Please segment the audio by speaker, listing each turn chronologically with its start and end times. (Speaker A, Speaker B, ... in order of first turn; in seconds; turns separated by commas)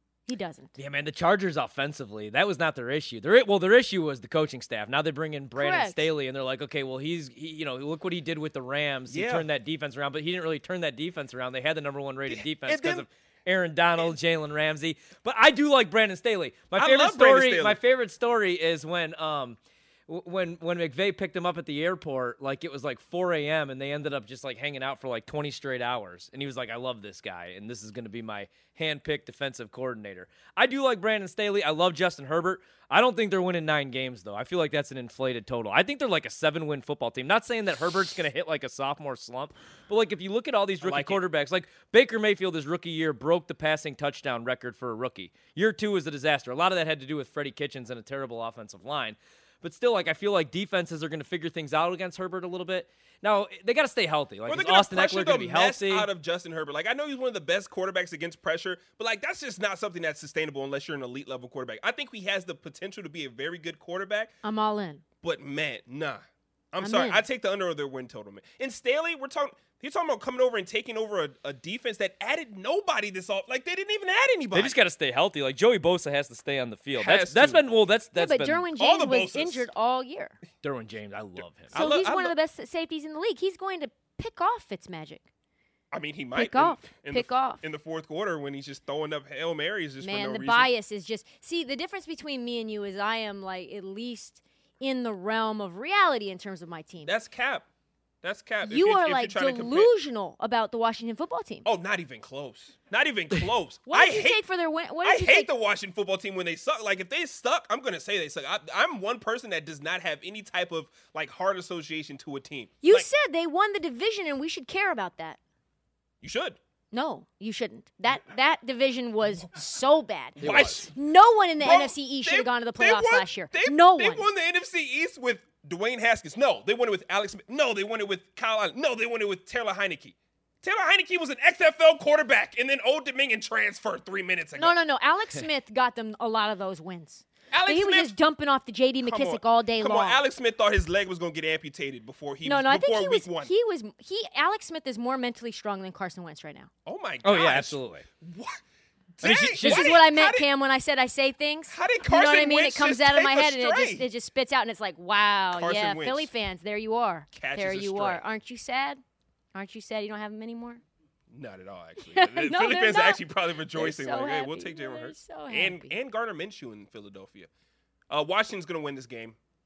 Speaker A: 0.3-0.7, Speaker B: 0.8-56.1, Speaker A: 5.5-6.1, Speaker C: 9.1-9.5, Speaker C: 12.3-13.1, Speaker C: 16.8-17.8, Speaker C: 40.8-41.2, Speaker C: 54.5-64.3, Speaker A: 64.4-65.0, Speaker C: 65.2-74.8, Speaker A: 66.8-67.2, Speaker B: 74.5-78.7, Speaker C: 76.9-77.7, Speaker A: 78.1-80.4, Speaker C: 78.8-79.7, Speaker B: 80.6-81.9, Speaker C: 81.7-82.3, Speaker A: 81.7-85.3, Speaker C: 85.9-90.7, Speaker A: 86.3-87.6, Speaker A: 90.0-97.1, Speaker C: 97.0-97.7, Speaker C: 98.2-99.9, Speaker A: 98.6-101.7, Speaker C: 101.6-104.4, Speaker A: 103.8-105.5, Speaker C: 105.0-113.1, Speaker A: 112.8-115.4, Speaker C: 116.2-116.6, Speaker A: 116.9-124.3, Speaker C: 120.3-120.9, Speaker B: 120.4-120.9, Speaker C: 121.6-134.8, Speaker A: 134.6-140.2, Speaker C: 137.5-138.1, Speaker C: 139.0-143.5, Speaker A: 142.4-146.7, Speaker C: 146.8-148.6, Speaker B: 147.2-148.0, Speaker C: 149.2-150.5, Speaker B: 149.2-149.9, Speaker A: 149.6-159.0, Speaker C: 151.7-154.1, Speaker C: 155.5-156.3, Speaker C: 157.3-158.2, Speaker A: 159.5-160.8, Speaker C: 161.3-167.5, Speaker A: 162.0-165.9, Speaker C: 168.1-169.4